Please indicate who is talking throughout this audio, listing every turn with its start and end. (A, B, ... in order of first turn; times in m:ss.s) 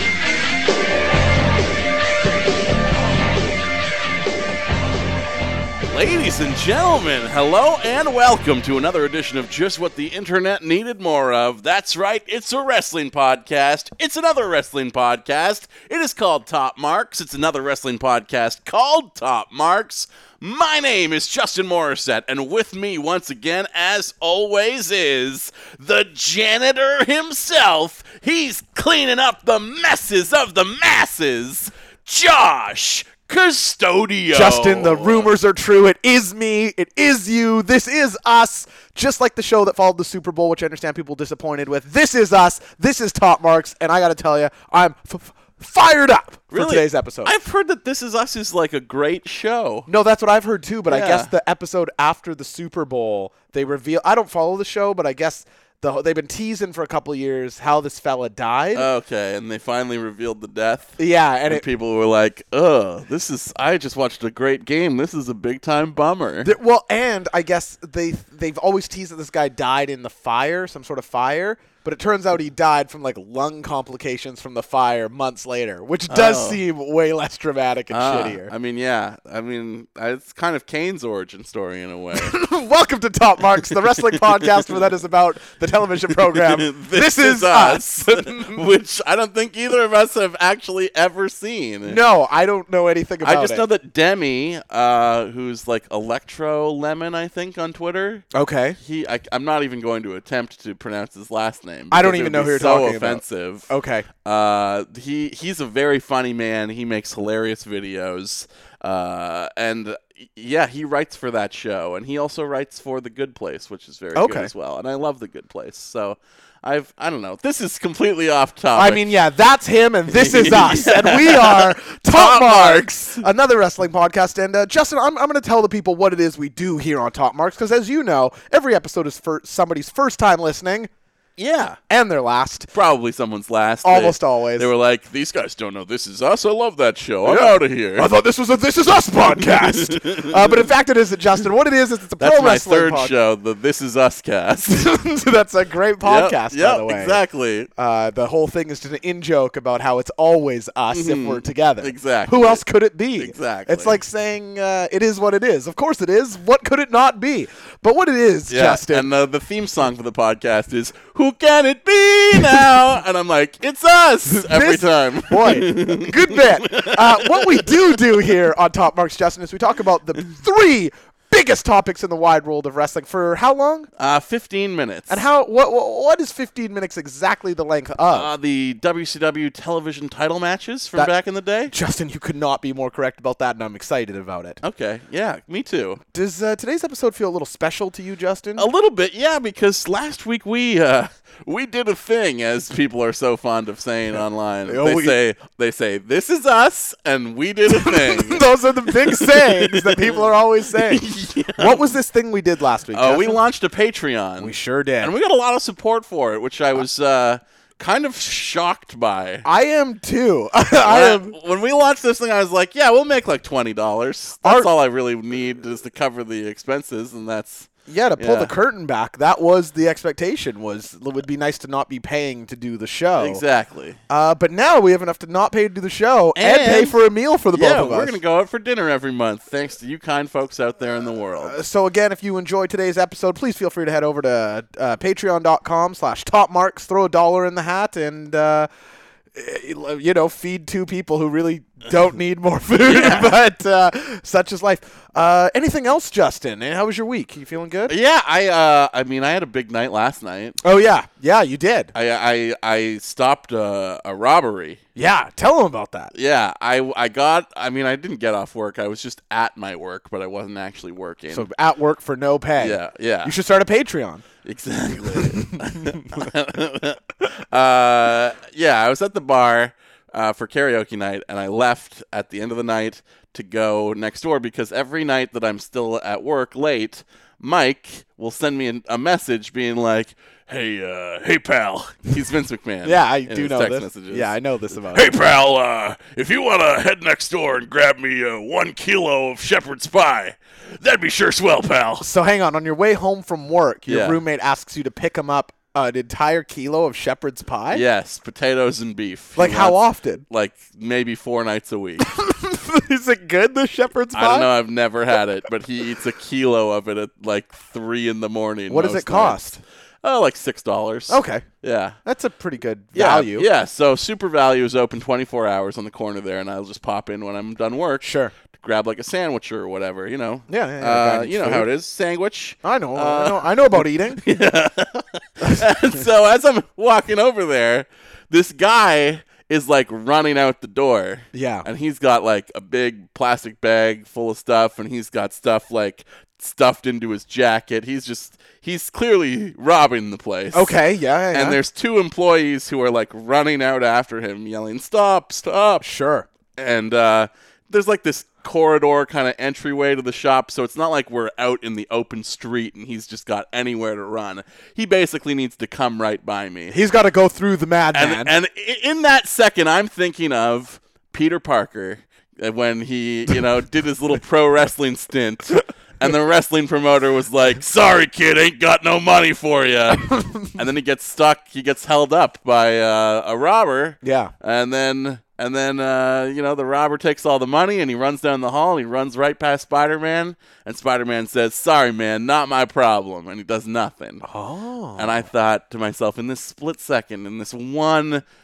0:05.9-0:35.3 A
0:34.3-0:47.3 B
0:46.5-0:49.9 A
0:49.9-0:58.9 B
0:50.9-0:51.3 A
0:58.7-1:06.5 A
1:01.0-1:01.6 B
1:06.4-1:18.5 B
1:16.1-1:16.6 A
1:17.9-1:22.4 A
1:22.1-1:28.7 B
1:24.1-1:24.7 A
1:26.1-1:32.0 A
1:31.8-1:33.6 B
1:33.2-1:38.3 A
1:38.3-1:38.8 B
1:38.8-1:43.7 A
1:41.9-1:44.1 B
1:44.2-1:59.1 A
1:54.1-1:54.5 B
1:58.7-2:10.9 B
2:00.1-2:03.2 A
2:11.4-2:11.8 A
2:11.9-2:12.7 B
2:12.7-2:18.1 A
2:13.8-2:14.7 B
2:17.2-2:23.1 B
2:19.7-2:20.6 A
2:22.2-2:24.9 A
2:24.7-2:27.2 B
2:26.0-2:27.7 A
2:27.8-2:39.1 B
2:30.9-2:32.6 A
2:33.2-2:34.0 A
2:38.5-2:48.0 A
2:44.3-2:53.9 B
2:54.0-2:55.3 A
2:55.1-2:58.3 B
2:58.1-3:01.7 A
3:01.7-3:04.6 B
3:04.6-3:06.0 A
3:06.1-3:08.6 B
3:08.6-3:21.8 A
3:14.7-3:15.2 B
3:17.7-3:23.4 B
3:22.9-3:29.4 A
3:24.4-3:25.1 B
3:29.4-3:31.3 B
3:30.8-3:38.5 A
3:34.4-3:34.7 B
3:37.9-3:43.4 B
3:43.2-3:44.0 A
3:44.1-3:48.2 B
3:46.4-3:47.0 A
3:47.5-3:51.6 A
3:51.4-3:58.7 B
3:59.3-4:07.9 B
4:02.8-4:03.3 A
4:07.9-4:10.6 A
4:10.6-4:11.9 B
4:11.9-4:14.8 A
4:14.9-4:16.1 B
4:16.1-4:21.5 A
4:21.3-4:24.2 B
4:22.6-4:23.3 A
4:24.4-4:44.3 A
4:25.2-4:26.2 B
4:42.8-4:45.1 B
4:44.9-4:52.1 A
4:52.0-4:57.8 B
4:53.9-4:54.2 A
4:57.7-5:02.1 A
4:59.4-5:00.2 B
5:02.0-5:04.5 B
5:04.1-5:09.5 A
5:08.7-5:09.6 B
5:10.0-5:12.0 A
5:11.1-5:11.5 B
5:12.0-5:13.5 B
5:12.9-5:40.8 A
5:18.0-5:18.3 B
5:20.5-5:21.7 B
5:22.6-5:24.2 B
5:31.3-5:31.7 B
5:40.5-5:41.6 B
5:41.3-5:45.8 A
5:45.8-5:46.2 B
5:46.6-5:56.7 A
5:56.7-5:58.3 B
5:57.9-6:24.2 A
6:14.0-6:14.3 B
6:24.2-6:25.2 B
6:25.0-6:28.2 A